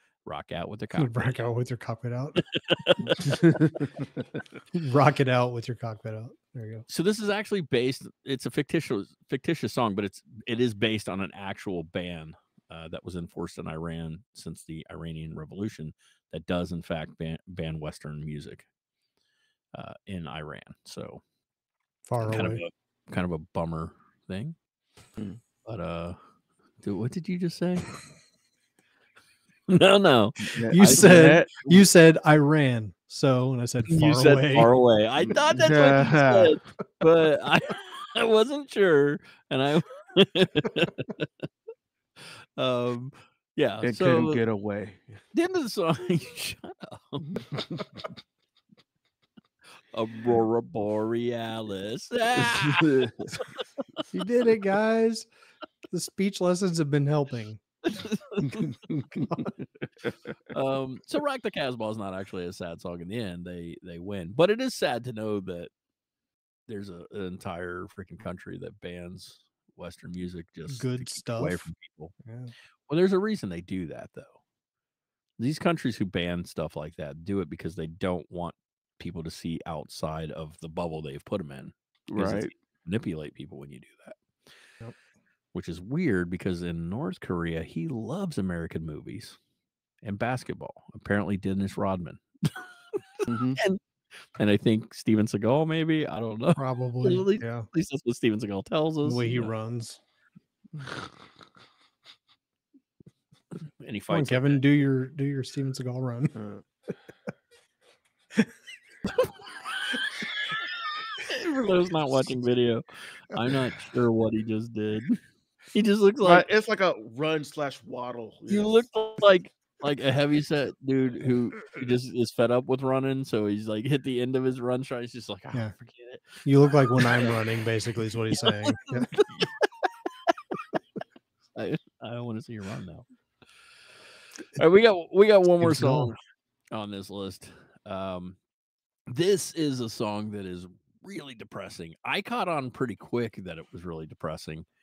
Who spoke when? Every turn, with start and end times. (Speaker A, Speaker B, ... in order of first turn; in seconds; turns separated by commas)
Speaker A: 0.3-1.4, Speaker B: 0.9-2.4, Speaker A: 2.5-3.4, Speaker C: 3.2-3.9, Speaker B: 4.7-6.8, Speaker A: 6.9-18.6, Speaker A: 19.7-21.2, Speaker B: 22.1-22.6, Speaker A: 22.2-24.6, Speaker A: 25.6-26.2, Speaker A: 26.8-27.9, Speaker A: 29.7-31.4, Speaker C: 30.5-31.8, Speaker B: 30.7-34.7, Speaker A: 33.9-41.3, Speaker C: 35.3-36.6, Speaker A: 42.6-44.4, Speaker C: 43.8-45.2, Speaker A: 45.3-47.4, Speaker A: 49.9-53.4, Speaker C: 52.4-53.4, Speaker B: 54.1-55.3, Speaker B: 55.9-57.6, Speaker A: 57.9-58.8, Speaker C: 58.6-59.3, Speaker A: 60.5-65.7, Speaker A: 66.7-72.1, Speaker B: 70.7-71.7, Speaker B: 72.2-72.5, Speaker A: 72.9-74.3, Speaker A: 75.4-84.2, Speaker C: 82.1-82.5, Speaker A: 85.5-89.4, Speaker A: 90.0-92.7, Speaker C: 93.3-93.6, Speaker A: 94.4-99.5, Speaker B: 96.6-97.7, Speaker B: 99.0-100.0, Speaker C: 100.8-101.1, Speaker A: 103.8-104.6, Speaker B: 104.1-106.3, Speaker C: 106.3-106.6, Speaker A: 111.2-115.2, Speaker A: 115.7-116.5, Speaker C: 116.2-118.9, Speaker A: 118.5-126.4, Speaker B: 126.4-129.1, Speaker A: 127.0-127.4, Speaker A: 128.3-129.7, Speaker A: 131.6-133.1, Speaker A: 134.6-136.2, Speaker B: 135.6-136.1, Speaker A: 136.7-138.4, Speaker A: 139.1-144.7